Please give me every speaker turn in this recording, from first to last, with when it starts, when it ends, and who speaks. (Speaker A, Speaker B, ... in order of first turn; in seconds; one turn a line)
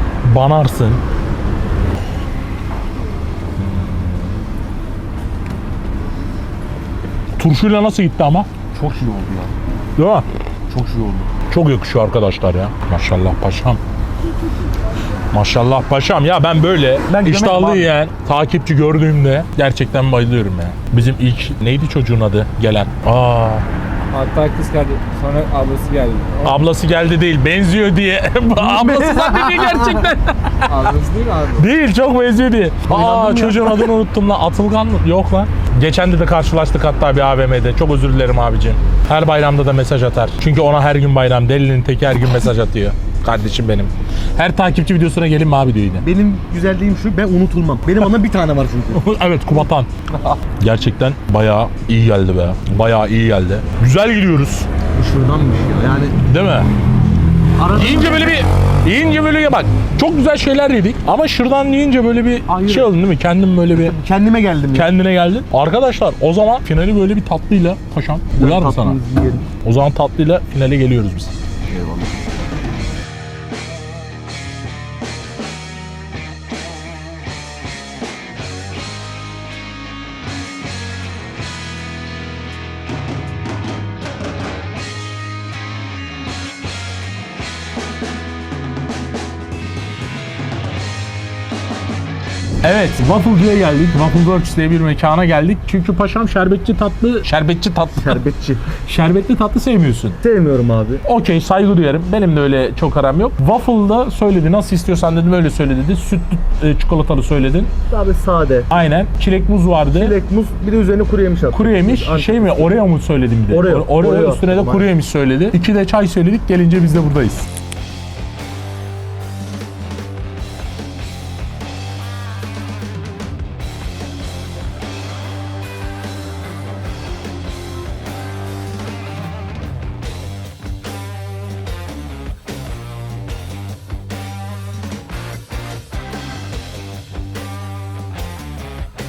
Speaker A: 0.2-1.0
Speaker A: 7.4-8.5
Speaker B: 8.7-9.5
Speaker A: 10.0-10.2
Speaker B: 10.7-11.3
Speaker A: 11.5-13.8
Speaker A: 15.3-23.6
Speaker B: 17.1-17.9
Speaker C: 24.1-26.6
Speaker A: 26.4-30.7
Speaker B: 28.6-30.1
Speaker C: 30.6-31.7
Speaker A: 31.6-46.0
Speaker B: 32.9-33.9
Speaker B: 46.0-49.0
Speaker A: 48.9-49.9
Speaker A: 50.6-54.7
Speaker B: 54.9-56.2
Speaker A: 56.2-56.7
Speaker B: 57.6-58.4
Speaker A: 57.7-64.0
Speaker B: 62.5-62.9
Speaker B: 63.8-64.9
Speaker A: 64.7-69.0
Speaker B: 68.4-69.5
Speaker A: 69.6-71.3
Speaker B: 71.7-72.2
Speaker A: 92.6-100.2
Speaker B: 98.0-98.7
Speaker B: 100.2-101.0
Speaker A: 101.0-107.7
Speaker B: 107.9-108.7
Speaker A: 108.7-110.2
Speaker B: 109.9-112.8
Speaker A: 111.5-117.5
Speaker B: 113.5-114.9